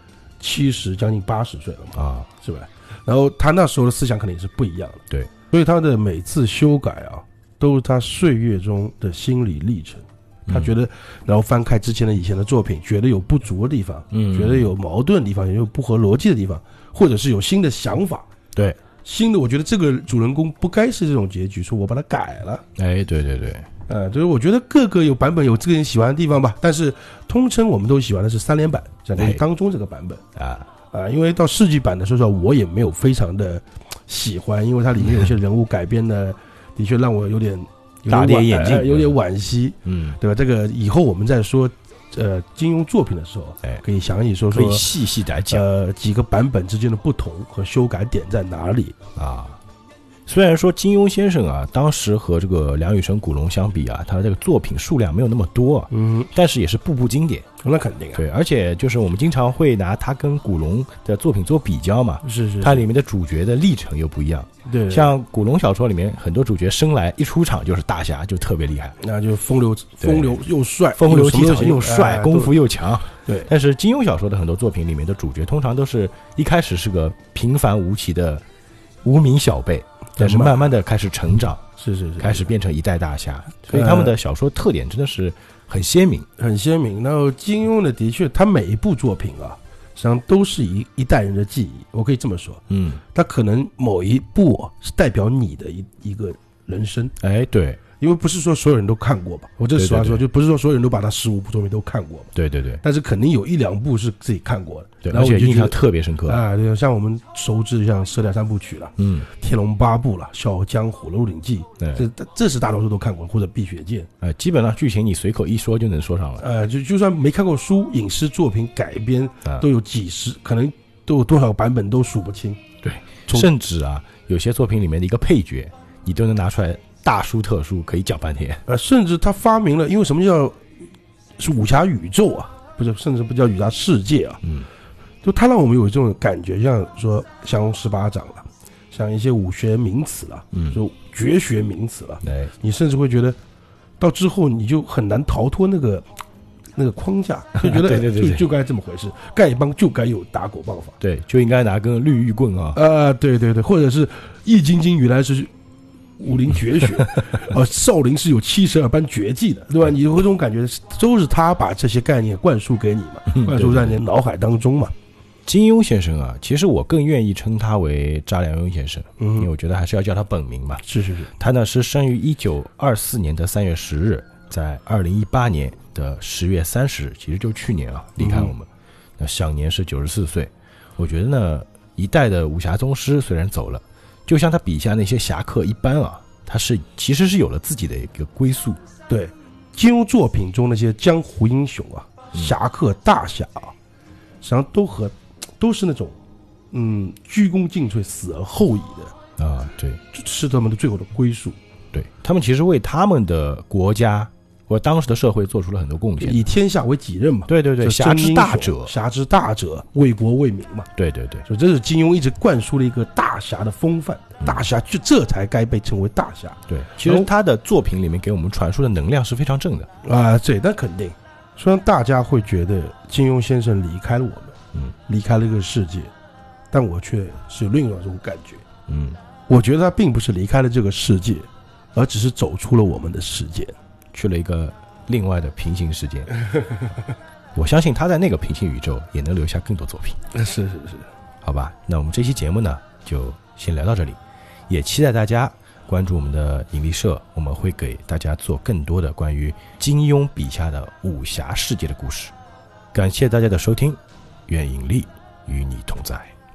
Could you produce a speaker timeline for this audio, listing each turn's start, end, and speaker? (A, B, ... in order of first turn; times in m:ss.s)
0:00.4-0:18.3 A
0:02.0-0:02.3 B
0:10.5-0:10.7 B
0:14.1-0:14.6 B
0:19.0-0:22.6 A
0:22.8-0:23.6 B
0:23.9-0:30.2 A
0:29.2-0:29.4 B
0:30.4-0:30.7 B
0:30.9-0:44.9 A
0:38.1-0:39.2 B
0:39.8-0:40.2 B
0:44.5-0:45.6 B
0:45.5-0:49.0 A
0:49.2-0:49.6 B
0:50.3-0:57.4 B
0:55.9-0:56.3 A
0:57.6-0:58.2 A
0:58.1-1:09.0 B
1:02.2-1:02.9 A
1:04.6-1:05.1 A
1:09.0-1:12.6 A
1:10.0-1:10.3 B
1:10.9-1:18.4 B
1:13.2-1:13.5 A
1:19.0-1:21.6 B
1:20.2-1:20.8 A
1:21.8-1:22.5 A
1:22.2-1:26.3 B
1:23.7-1:24.2 A
1:26.4-1:32.6 A
1:32.7-1:33.0 B
1:33.1-1:37.1 A
1:37.2-1:37.8 B
1:38.0-1:54.1 A
1:39.8-1:40.2 B
1:42.4-1:42.8 B
1:45.0-1:46.4 B
1:49.0-1:49.3 B
1:54.2-1:56.4 B
1:56.4-2:02.6 A
2:02.8-2:08.6 B
2:08.6-2:10.6 A
2:11.4-2:14.4 A
2:15.2-2:23.4 A
2:20.5-2:20.8 B
2:22.2-2:22.5 B
2:24.0-2:26.1 A
2:26.8-2:31.0 A
2:27.6-2:28.4 B
2:31.0-2:32.8 B
2:32.7-2:35.5 A
2:36.2-2:44.9 A
2:43.3-2:44.0 B
2:45.4-2:50.8 B
2:49.2-2:49.5 A
2:50.8-2:51.3 A
2:51.4-2:58.7 B
2:58.2-2:58.6 A
2:59.2-3:08.8 B
3:09.1-3:13.7 A
3:14.4-3:16.2 A
3:16.7-3:19.1 A
3:19.4-3:20.0 B
3:20.1-3:21.6 A
3:21.9-3:26.4 B
3:26.2-3:30.9 A
3:27.5-3:28.9 B
3:31.0-3:31.4 B
3:31.4-3:37.3 A
3:36.7-3:39.9 B
3:40.0-3:46.1 A
3:46.7-3:48.6 A
3:48.9-3:49.2 B
3:49.5-3:53.7 A
3:54.1-3:56.3 B
3:57.5-4:00.2 B
4:00.3-4:01.1 A
4:01.4-4:04.2 B
4:04.7-4:12.3 B
4:12.9-4:16.3 B